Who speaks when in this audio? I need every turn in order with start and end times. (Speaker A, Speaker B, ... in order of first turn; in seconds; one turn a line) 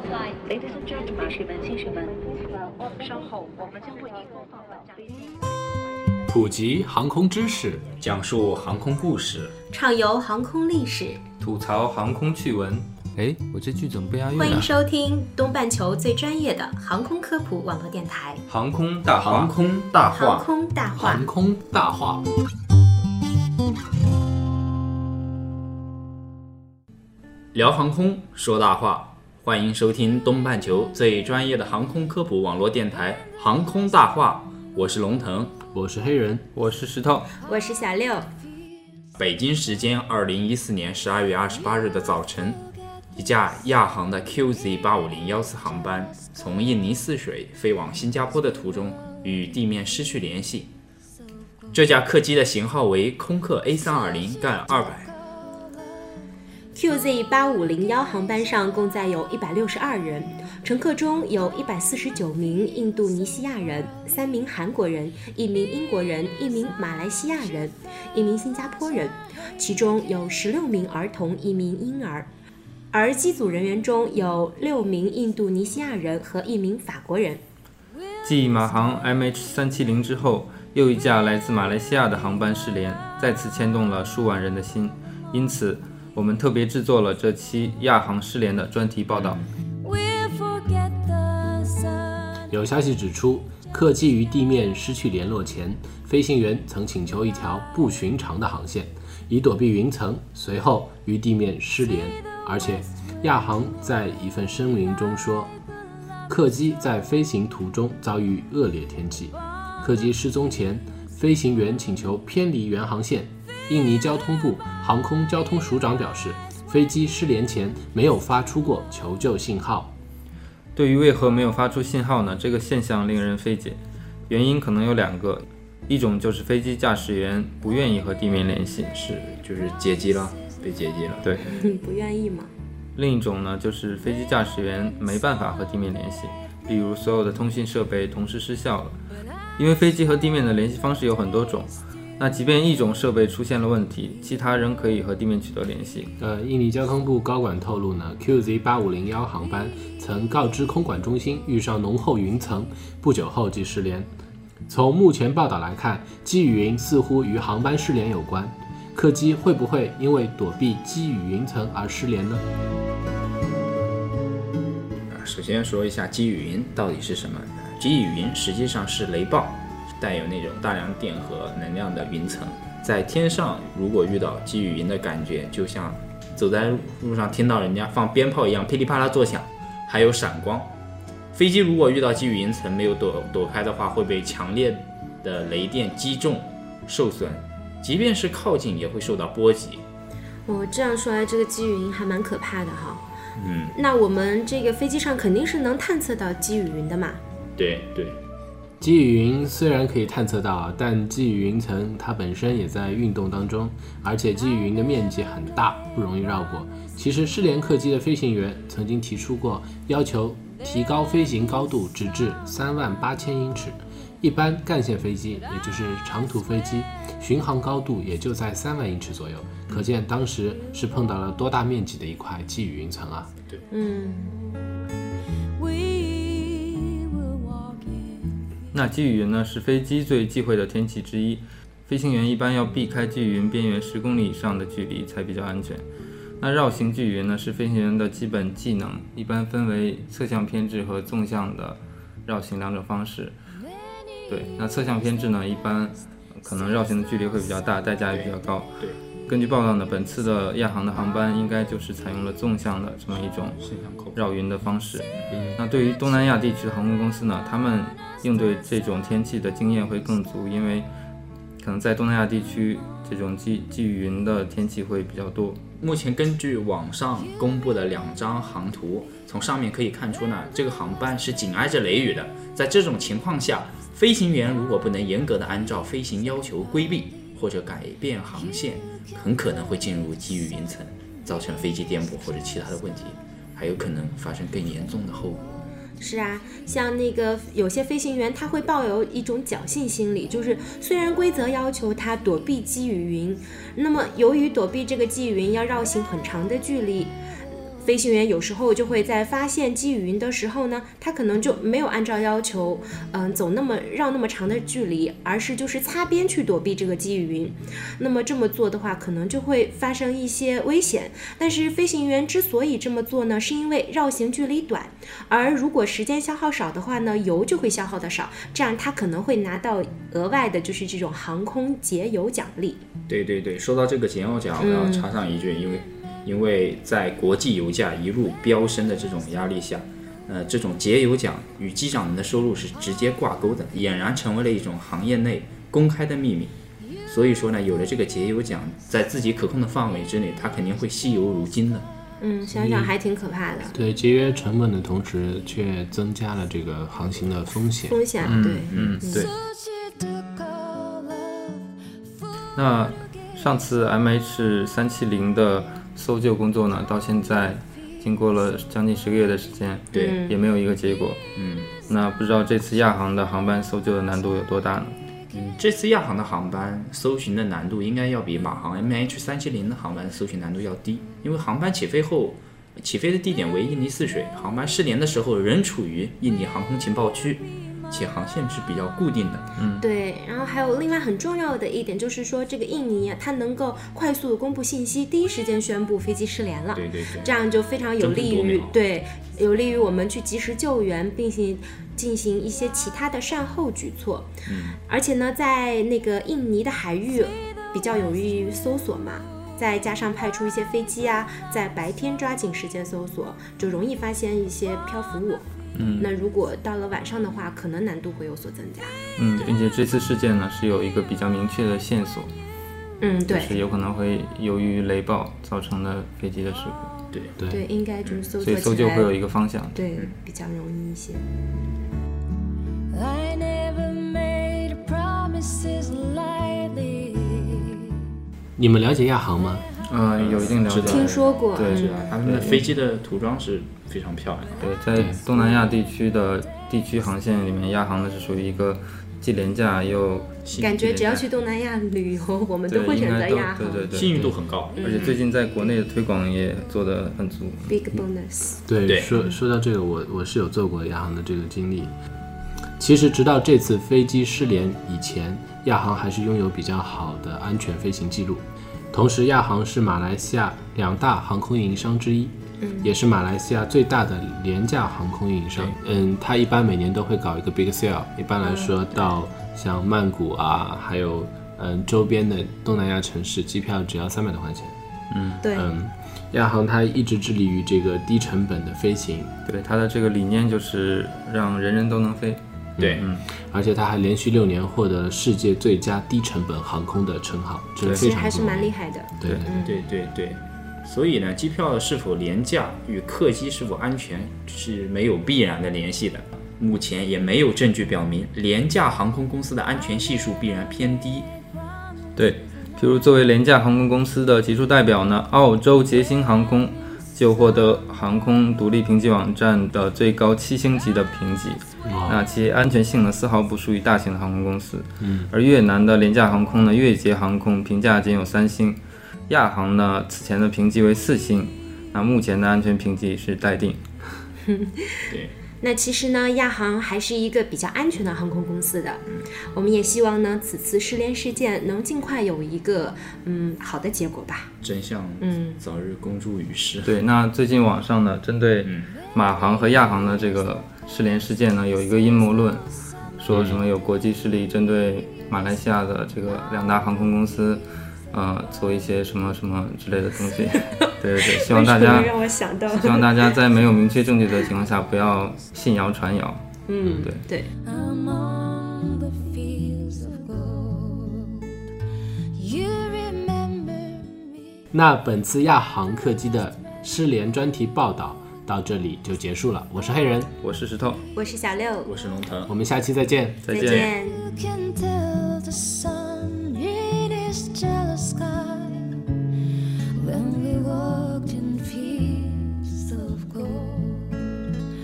Speaker A: 0.8-2.1
Speaker A: 2.9-4.3
Speaker B: 6.3-7.9
Speaker C: 8.0-9.5
Speaker D: 9.7-11.2
Speaker E: 11.4-14.7
Speaker D: 14.3-18.4
Speaker E: 18.5-19.5
Speaker C: 19.1-20.5
Speaker D: 20.1-21.3
Speaker B: 21.0-22.3
Speaker C: 27.5-35.5
Speaker B: 35.7-36.5
Speaker E: 36.5-37.3
Speaker D: 37.5-38.3
Speaker C: 39.2-42.6
Speaker C: 43.1-50.7
Speaker C: 51.7-55.1
Speaker D: 56.7-72.3
Speaker D: 72.9-77.4
Speaker E: 78.2-89.4
Speaker C: 89.1-89.5
Speaker F: 89.8-92.5
Speaker B: 92.5-105.5
Speaker B: 106.3-119.9
Speaker E: 120.8-123.8
Speaker E: 124.3-128.9
Speaker C: 128.9-131.3
Speaker E: 131.2-131.5
Speaker D: 131.4-132.5
Speaker E: 133.0-139.0
Speaker E: 139.6-146.1
Speaker B: 146.2-154.1
Speaker B: 154.7-162.4
Speaker C: 165.1-180.7
Speaker C: 181.3-189.8
Speaker D: 190.5-193.1
Speaker C: 193.4-193.7
Speaker D: 193.7-197.2
Speaker C: 197.6-198.2
Speaker B: 198.8-223.3
Speaker D: 223.7-224.4
Speaker F: 225.6-228.3
Speaker E: 228.7-235.8
Speaker E: 236.4-243.3
Speaker E: 244.3-253.6
Speaker C: 248.1-249.0
Speaker C: 253.6-254.2
Speaker E: 254.2-260.9
Speaker B: 255.3-255.6
Speaker E: 261.6-265.6
Speaker C: 265.8-285.6
Speaker D: 286.0-297.1
Speaker D: 297.8-322.8
Speaker C: 323.1-336.5
Speaker D: 324.6-325.1
Speaker C: 337.1-341.9
Speaker D: 342.2-343.8
Speaker B: 342.5-342.9
Speaker B: 343.7-348.4
Speaker D: 347.9-349.3
Speaker E: 348.2-349.3
Speaker C: 348.7-349.1
Speaker F: 349.3-351.7
Speaker E: 352.6-361.2
Speaker D: 359.9-360.4
Speaker C: 361.4-361.7
Speaker E: 361.8-365.0
Speaker C: 365.3-379.5
Speaker E: 379.6-379.8
Speaker D: 379.8-394.3
Speaker C: 386.8-387.3
Speaker C: 388.0-388.8
Speaker C: 394.4-394.8
Speaker D: 394.9-405.4
Speaker E: 405.8-406.1
Speaker C: 405.8-406.0
Speaker D: 406.0-408.9
Speaker E: 409.2-412.3
Speaker D: 413.0-413.6
Speaker E: 413.3-416.9
Speaker C: 417.1-417.4
Speaker B: 417.4-417.6
Speaker D: 417.5-419.1
Speaker C: 418.1-418.3
Speaker E: 418.4-419.8
Speaker D: 419.7-421.2
Speaker F: 422.9-428.0
Speaker B: 428.6-429.7
Speaker E: 429.9-432.6
Speaker C: 430.2-435.2
Speaker D: 430.8-432.0
Speaker E: 434.6-441.3
Speaker D: 440.6-443.9
Speaker E: 442.7-444.2
Speaker C: 443.9-445.2
Speaker D: 444.8-445.1
Speaker E: 444.8-447.8
Speaker D: 447.7-448.6
Speaker B: 448.7-451.9
Speaker C: 448.9-449.2
Speaker B: 452.8-474.8
Speaker D: 462.6-462.9
Speaker D: 468.4-468.8
Speaker E: 475.1-475.4
Speaker D: 475.4-475.7
Speaker B: 475.5-479.3
Speaker E: 479.4-483.3
Speaker B: 482.8-489.5
Speaker C: 482.8-483.1
Speaker E: 487.8-488.1
Speaker D: 487.9-489.8
Speaker C: 489.6-501.3
Speaker E: 502.2-523.8
Speaker B: 511.9-512.2
Speaker B: 515.0-515.3
Speaker D: 524.5-534.5
Speaker C: 534.6-537.0
Speaker D: 535.2-535.6
Speaker E: 536.8-542.7
Speaker C: 538.6-538.9
Speaker E: 543.2-552.1
Speaker C: 543.3-543.6
Speaker D: 550.8-553.3
Speaker E: 552.7-557.2
Speaker D: 556.7-557.5
Speaker F: 557.6-561.7
Speaker F: 562.4-564.7
Speaker B: 564.7-570.3
Speaker E: 570.4-571.0
Speaker D: 571.1-571.9
Speaker C: 571.9-572.5
Speaker B: 572.5-573.4
Speaker E: 573.4-573.9
Speaker D: 573.5-574.3
Speaker C: 573.6-573.9
Speaker F: 574.3-579.1
Speaker F: 580.0-584.4